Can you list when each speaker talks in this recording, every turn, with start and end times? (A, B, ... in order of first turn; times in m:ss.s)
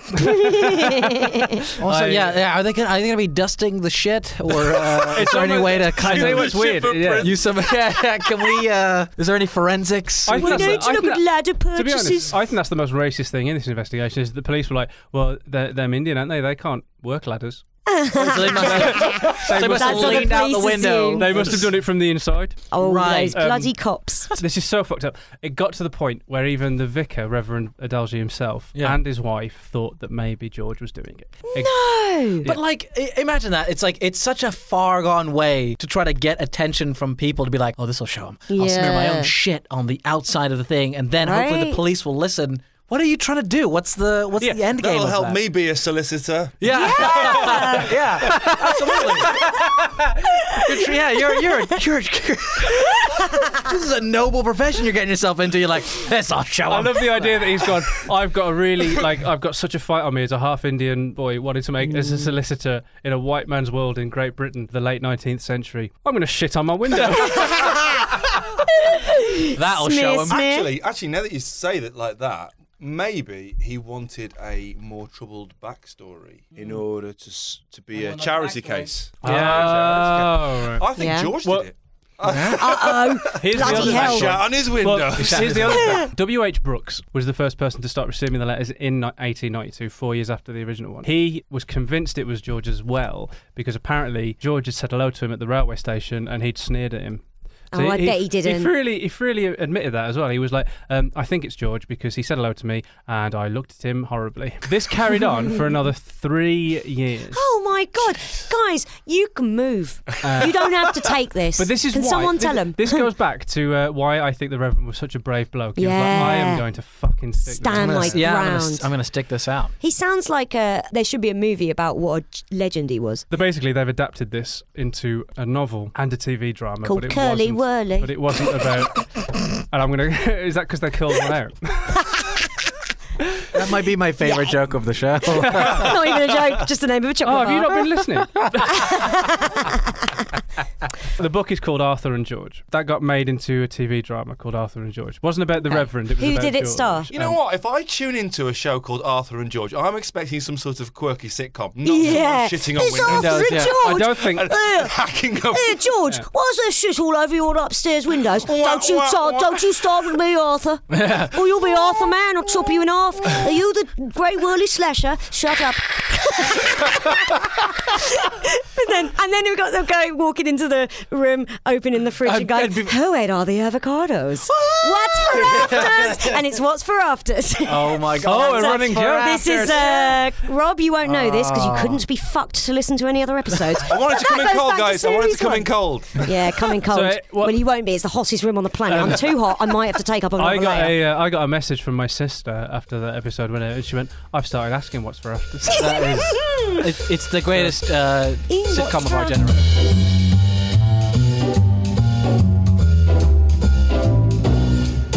0:00.1-0:01.7 A
0:01.8-0:10.8 B
0:01.8-0:02.4 C
0:05.0-0:08.3 D
0:05.1-0:07.3 C
0:10.3-0:17.6 C
0:10.3-0:12.4 A
0:17.9-0:21.5 A
0:18.1-0:21.7 B
0:18.6-0:20.4 C
0:21.2-0:22.7 C
0:22.7-0:24.3 A
0:22.8-0:23.4 B
0:23.3-0:23.7 C
0:24.3-0:31.7 C
0:31.5-0:32.5 A
0:32.4-0:45.4 B
0:38.5-0:39.3 A
0:41.2-0:41.8 A
0:44.8-0:48.0 D
0:46.6-0:57.8 B
0:46.7-0:47.9 A
0:50.4-0:50.7 A
0:52.8-0:53.5 A
0:56.7-1:07.6 C
1:07.2-1:10.7 A
1:09.5-1:10.4 B
1:10.3-1:26.0 D
1:17.9-1:19.9 B
1:19.2-1:20.9 C
1:21.0-1:21.3 A
1:21.4-1:21.7 C
1:22.2-1:22.8 B
1:22.5-1:24.4 A
1:23.3-1:47.5 C
1:25.1-1:26.0 B
1:25.8-1:26.1 A
1:37.7-1:38.7 A
1:47.3-1:53.1 A
1:50.2-1:50.6 C
1:51.6-1:58.3 C
1:55.8-1:56.6 A
1:57.4-1:58.9 A
1:57.7-1:59.7 B
1:59.8-2:03.2 A
2:03.3-2:12.0 C
2:06.8-2:08.7 A
2:13.5-2:16.1 B
2:14.2-2:14.6 A
2:15.4-2:15.8 C
2:15.4-2:18.0 A
2:17.2-2:18.9 C
2:18.6-2:20.0 A
2:21.1-2:27.4 C
2:25.7-2:27.1 A
2:27.1-2:35.9 D
2:31.8-2:35.0 A
2:33.0-2:33.9 B
2:33.7-2:34.5 C
2:35.5-3:11.0 A
2:38.4-2:40.1 D
2:40.9-2:41.4 B
2:52.2-2:53.0 B
2:54.4-2:56.4 B
2:57.6-3:00.1 B
2:58.2-3:00.2 C
3:01.0-3:02.0 B
3:03.8-3:06.6 D
3:06.9-3:07.6 C
3:08.9-3:09.4 C
3:10.4-3:16.1 C
3:15.7-3:16.8 A
3:15.7-3:19.9 B
3:18.5-3:19.4 A